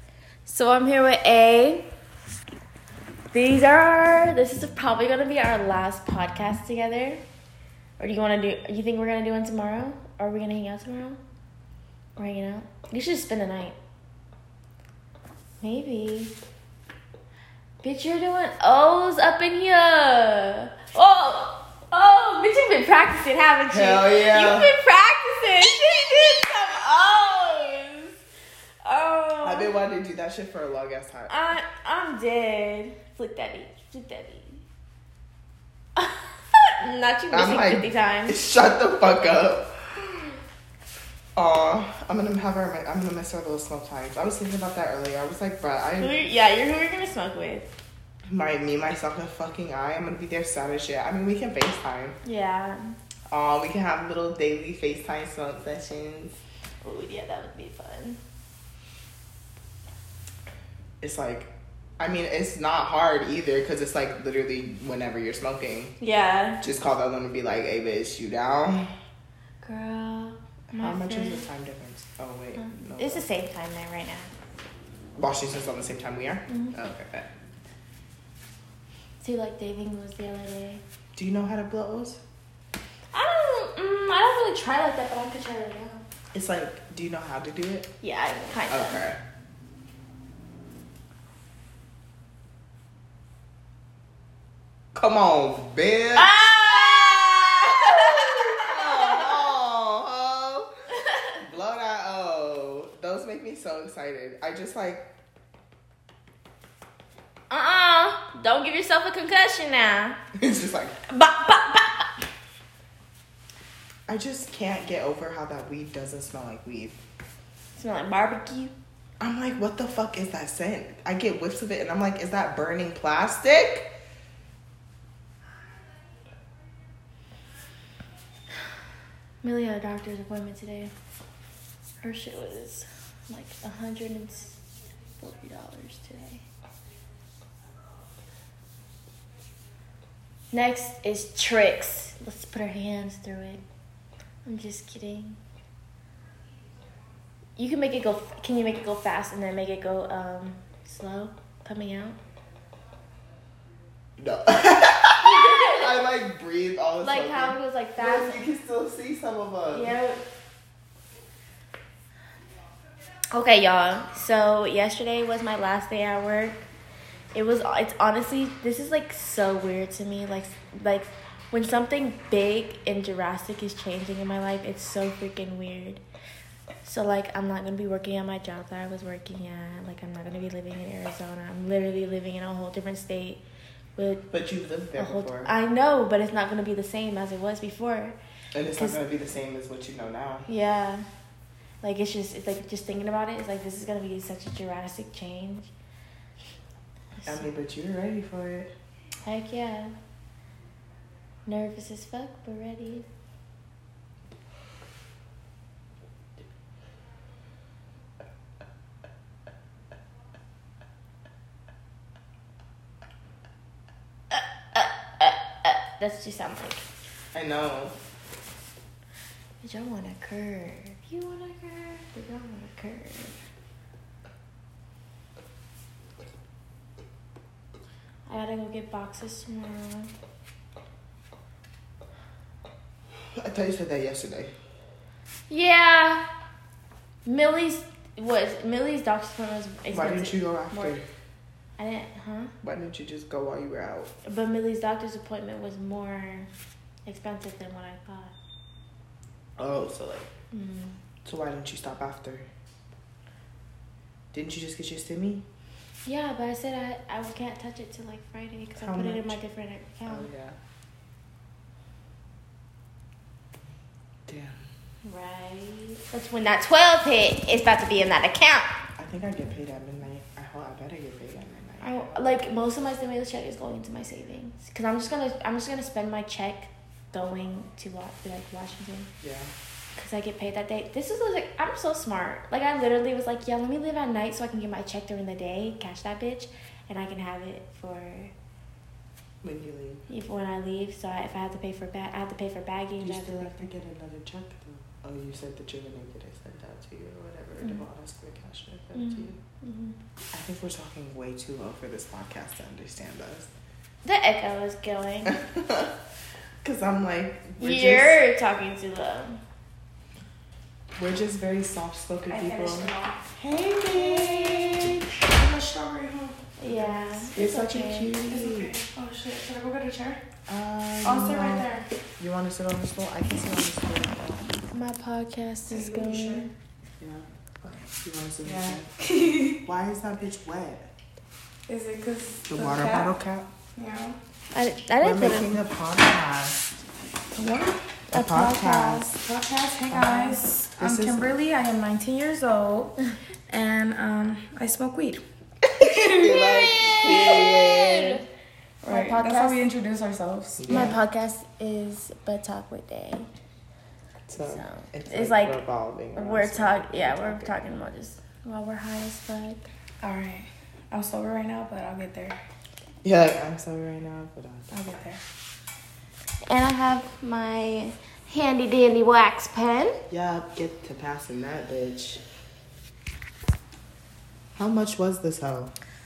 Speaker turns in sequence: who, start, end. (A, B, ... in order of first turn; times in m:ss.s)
0:00.4-0:01.9 A
0:03.3-0:07.2 A
0:08.0-0:11.2 A
0:12.2-0:13.8 A
0:15.6-0:16.3 A
0:17.8-0:28.1 A
0:23.7-0:24.7 B
0:28.8-0:29.7 A
0:29.4-0:31.3 B
0:31.3-0:34.6 A
0:36.0-0:38.4 A
0:37.3-0:39.7 B
0:41.4-0:46.2 B
0:46.0-0:47.7 A
0:48.3-0:52.2 B
0:52.2-0:52.9 A
0:53.3-0:56.4 B
0:56.8-0:58.2 A
1:01.0-1:05.9 B
1:06.0-1:06.6 A
1:06.6-1:08.9 B
1:09.6-1:11.4 A
1:10.7-1:13.2 B
1:12.6-1:14.3 A
1:15.2-1:17.3 B
1:16.5-1:16.8 A
1:19.2-1:20.8 A
1:21.1-1:22.2 B
1:23.1-1:26.0 A
1:26.3-1:27.9 B
1:28.0-1:29.0 A
1:28.7-1:29.2 B
1:34.9-1:36.3 B
1:36.1-1:39.4 A
1:37.7-1:40.7 B
1:41.0-1:41.4 A
1:41.4-1:45.0 B
1:47.5-1:50.2 A
1:50.4-1:51.0 B
1:51.1-1:52.1 A
1:54.1-1:57.0 B
1:57.8-1:58.7 A
1:59.2-2:03.9 B
2:09.4-2:10.9 A
2:12.0-2:14.6 A
2:15.2-2:16.4 A
2:20.5-2:23.6 A
2:24.4-2:25.4 A
2:27.6-2:32.2 A
2:34.2-2:39.9 B
2:35.2-2:35.9 A
2:37.0-2:38.4 A
2:39.7-2:40.2 A
2:43.3-2:46.6 A
2:47.3-2:56.0 A
2:56.8-3:03.4 A
3:04.0-3:04.3 A
3:04.3-3:05.5 B
3:04.9-3:08.2 A
3:08.5-3:10.5 B
3:10.5-3:11.0 A
3:11.8-3:15.7 A
3:17.2-3:18.7 B
3:19.2-3:19.9 A
3:21.4-3:23.0 A
3:34.3-3:36.8 A
3:37.3-3:37.9 B
3:39.6-3:43.4 A
3:48.3-3:50.1 A
3:53.3-3:54.5 B
3:55.5-3:56.2 A
3:57.2-4:01.0 A
3:59.9-4:01.0 B
4:01.8-4:02.5 A
4:02.6-4:04.1 B
4:04.2-4:06.5 A
4:07.0-4:08.4 A
4:09.6-4:10.3 B
4:10.5-4:10.9 A
4:11.2-4:12.5 B
4:14.3-4:15.4 B
4:16.0-4:20.3 A
4:18.8-4:19.4 B
4:20.1-4:20.6 B
4:24.3-4:24.6 B
4:25.0-4:28.8 A
4:29.0-4:32.4 B
4:31.8-4:39.1 A
4:39.2-4:39.5 B
4:40.0-4:48.3 A
4:49.4-4:50.0 B
4:50.1-4:53.7 A
4:53.0-4:59.4 B
4:59.0-5:00.0 A
5:00.3-5:03.5 B
5:04.0-5:05.4 A
5:05.2-5:05.9 B
5:06.6-5:08.2 B
5:07.6-5:09.4 A
5:11.0-5:15.0 B
5:12.3-5:13.2 C
5:13.9-5:17.3 C
5:16.6-5:18.1 A
5:17.3-5:18.7 B
5:18.3-5:20.2 C
5:20.5-5:24.6 B
5:21.0-5:21.8 C
5:24.7-5:26.5 A
5:25.7-5:26.5 C
5:27.0-5:28.9 B
5:28.4-5:29.6 C
5:29.5-5:30.9 B
5:31.7-5:33.1 C
5:32.5-5:33.5 B
5:33.8-5:34.2 C
5:34.5-5:35.5 A
5:35.0-5:36.8 B
5:37.3-5:37.8 C
5:38.1-5:39.1 B
5:38.1-5:39.2 A
5:39.2-5:43.0 C
5:39.9-5:41.3 B
5:43.5-5:45.2 C
5:45.8-5:46.4 C
5:45.8-5:48.2 B
5:46.1-5:48.2 A
5:48.8-5:49.6 A
5:48.8-5:50.9 C
5:50.6-5:51.0 B
5:50.7-5:53.3 A
5:54.3-5:57.5 B
5:54.4-5:55.6 A
5:56.1-5:59.6 A
6:00.0-6:02.4 C
6:03.0-6:04.7 B
6:04.7-6:05.2 C
6:06.5-6:10.0 A
6:10.1-6:12.2 B
6:14.6-6:15.7 B